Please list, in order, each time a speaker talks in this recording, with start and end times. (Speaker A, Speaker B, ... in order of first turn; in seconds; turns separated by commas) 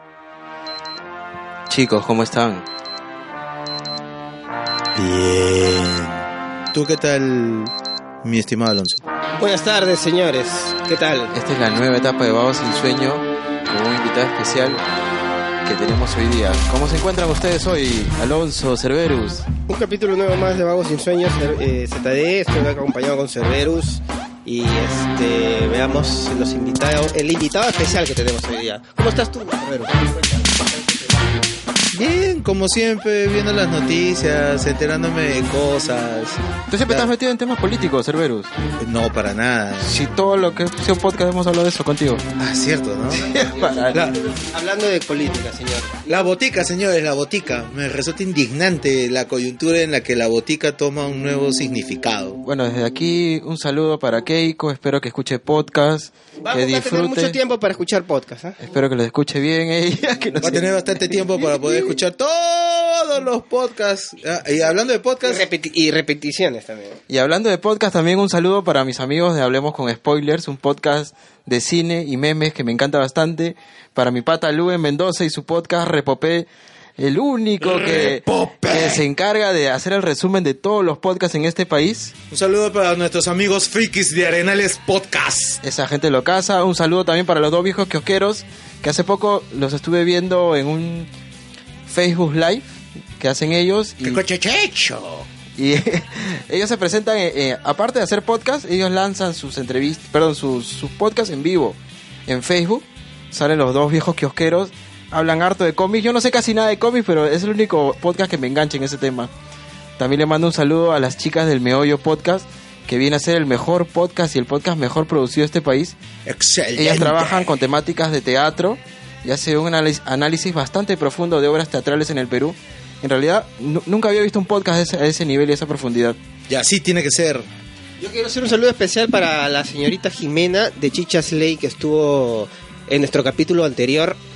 Speaker A: 1.7-2.6, Speaker B: 5.0-9.0, Speaker C: 9.4-11.3, Speaker A: 11.3-14.8, Speaker A: 15.7-19.5, Speaker C: 19.7-31.6, Speaker B: 31.9-37.1, Speaker A: 36.7-38.5, Speaker B: 38.8-40.0, Speaker A: 39.8-42.2, Speaker B: 42.4-43.3, Speaker A: 43.1-44.0, Speaker C: 43.3-46.2, Speaker B: 46.1-52.4, Speaker A: 52.5-57.4, Speaker C: 56.4-58.6, Speaker A: 58.6-60.7, Speaker B: 60.4-65.5, Speaker C: 65.2-67.0, Speaker A: 67.1-76.5, Speaker A: 77.0-82.1, Speaker B: 77.6-79.0, Speaker B: 82.3-85.6, Speaker A: 85.6-91.1, Speaker A: 91.9-92.7, Speaker A: 93.2-94.2, Speaker B: 94.0-95.3, Speaker A: 95.6-109.3, Speaker A: 110.0-116.0, Speaker B: 116.3-117.5, Speaker A: 116.8-126.2, Speaker B: 126.5-127.5, Speaker C: 128.0-134.2